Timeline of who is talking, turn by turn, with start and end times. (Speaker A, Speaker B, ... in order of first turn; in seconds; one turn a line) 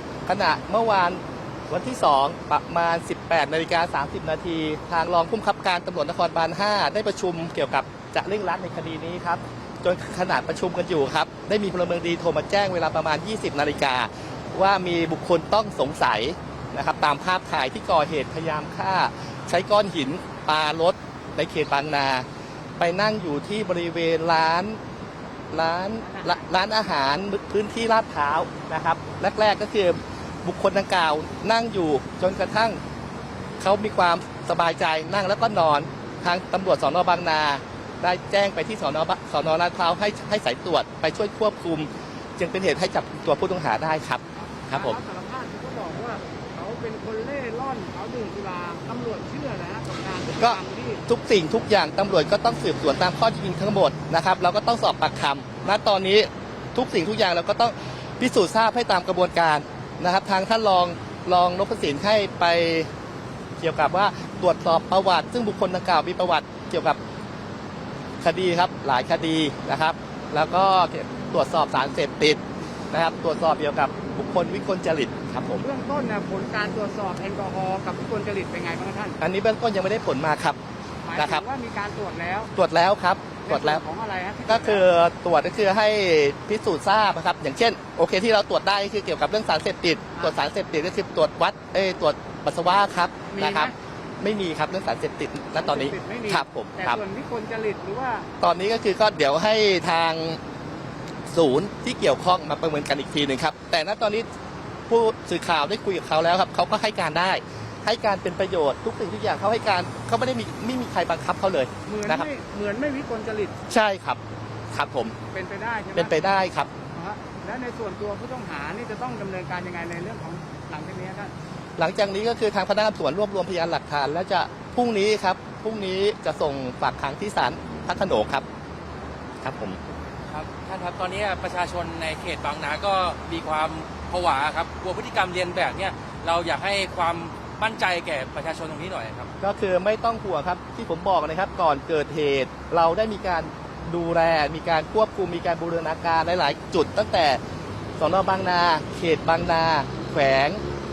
Speaker A: 0.3-22.2
Speaker A: 22.8-24.8
Speaker A: 25.5-32.8
Speaker B: 26.0-26.5
Speaker A: 33.6-45.0
Speaker B: 44.4-51.0
Speaker A: 50.4-62.9
Speaker A: 63.6-67.0
Speaker A: 68.2-75.7
Speaker B: 75.6-79.2
Speaker A: 79.2-80.6
Speaker B: 81.0-82.5
Speaker A: 81.2-81.4
Speaker A: 82.5-83.8
Speaker B: 83.4-84.9
Speaker A: 84.5-97.0
Speaker B: 93.3-93.7
Speaker B: 95.5-98.3
Speaker A: 98.4-100.4
Speaker A: 101.3-104.3
Speaker A: 104.9-112.3
Speaker B: 111.8-113.5
Speaker A: 113.7-114.2
Speaker A: 114.7-115.2
Speaker B: 115.3-116.2
Speaker A: 115.9-116.7
Speaker B: 116.9-121.3
Speaker A: 121.8-128.4
Speaker A: 129.4-129.8
Speaker C: 130.3-139.3
Speaker A: 139.4-147.4
Speaker A: 148.0-150.6